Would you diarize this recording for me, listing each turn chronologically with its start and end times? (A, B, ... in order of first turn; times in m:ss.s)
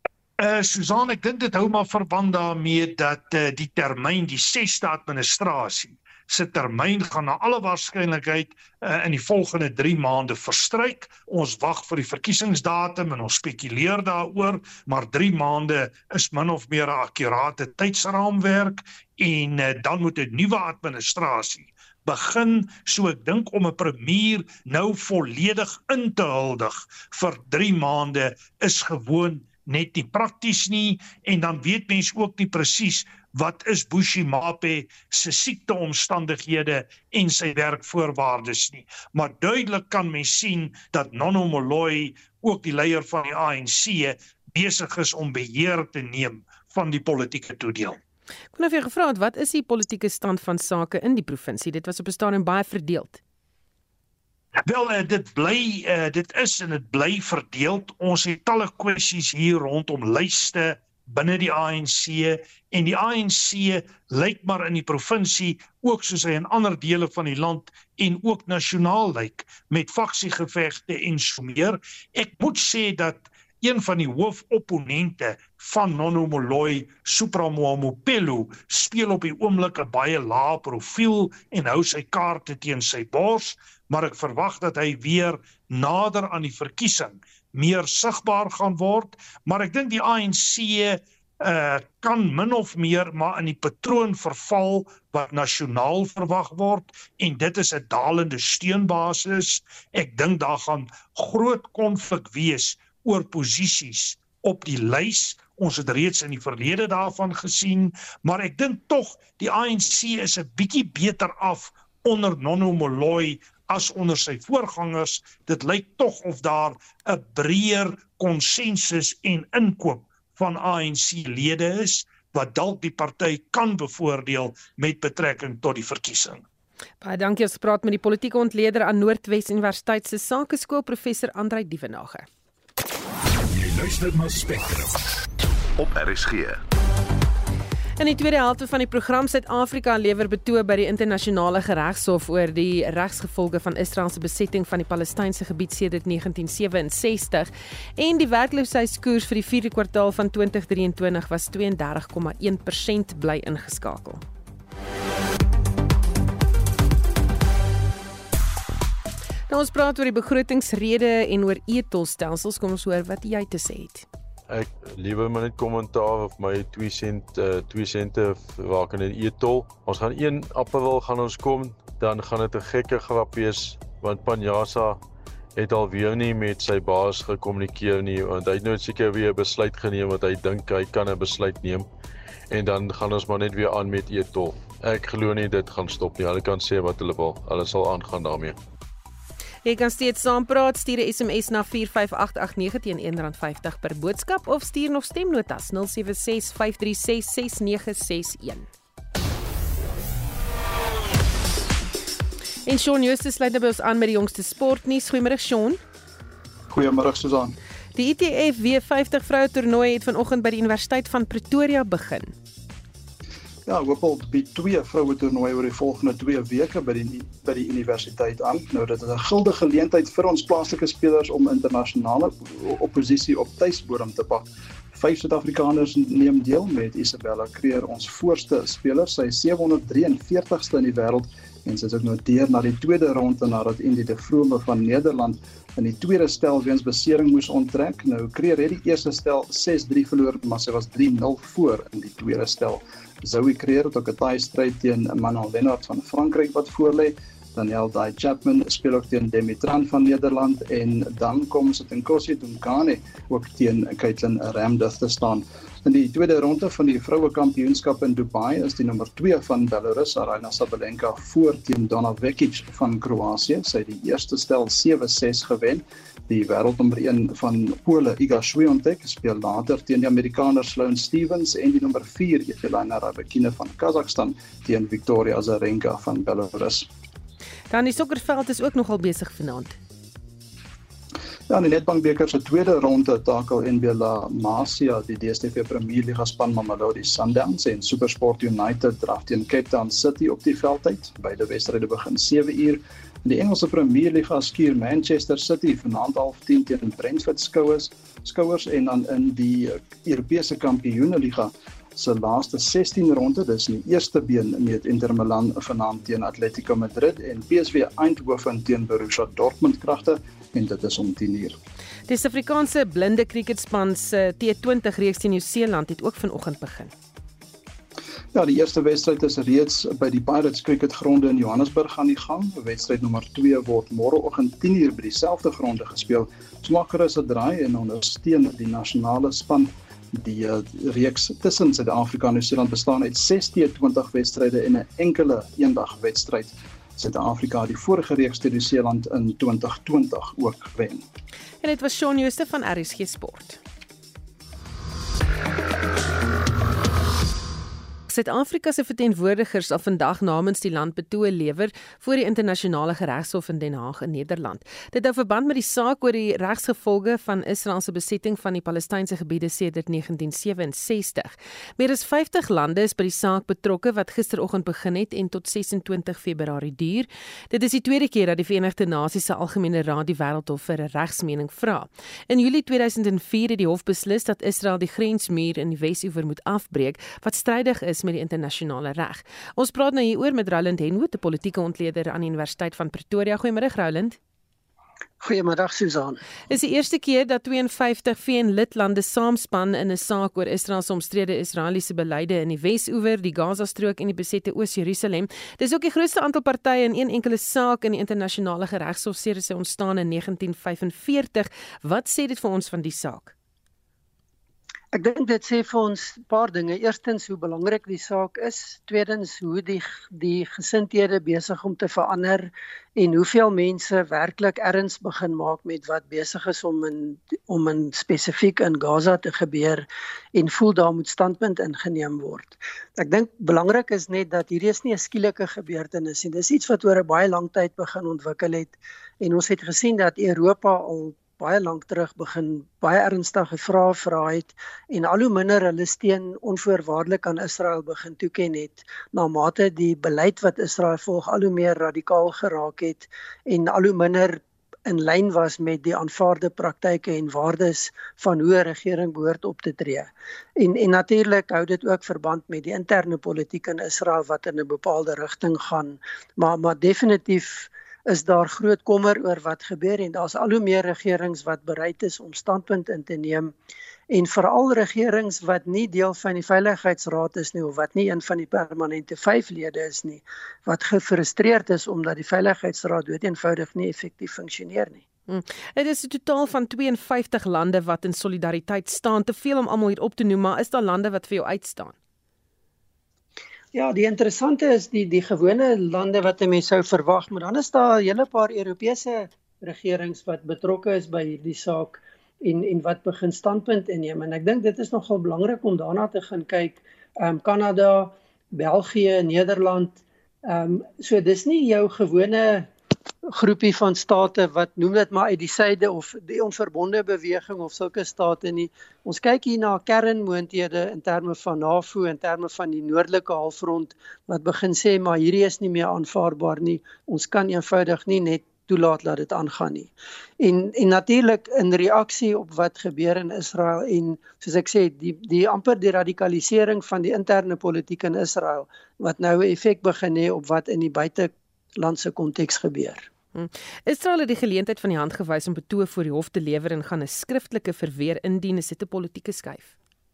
0:00.4-0:48.0 A
0:48.6-0:53.2 B
0:54.7-2:06.4 A
2:07.0-2:12.3 B
2:13.6-2:14.8 C
2:15.8-2:16.6 C
2:18.0-2:34.2 B
2:39.5-2:44.0 B
2:44.5-2:55.0 D
2:55.6-3:01.9 D
3:02.5-3:08.6 D
3:09.6-3:18.7 B
3:22.7-3:25.8 B
3:26.7-3:27.6 E
3:28.0-3:32.3 B
3:33.7-4:36.9 E
4:37.7-4:39.8 B
4:41.5-5:11.6 E
5:12.1-5:16.9 B
5:18.3-5:41.0 E
5:41.6-5:43.6 B
5:48.1-6:24.2 B
6:25.2-6:26.2 F
6:26.5-6:43.3 B
6:44.9-7:43.5 F
7:44.1-7:55.0 F
7:55.3-8:02.0 B
8:03.7-8:22.7 F
8:23.3-8:53.1 F
8:53.4-8:59.7 B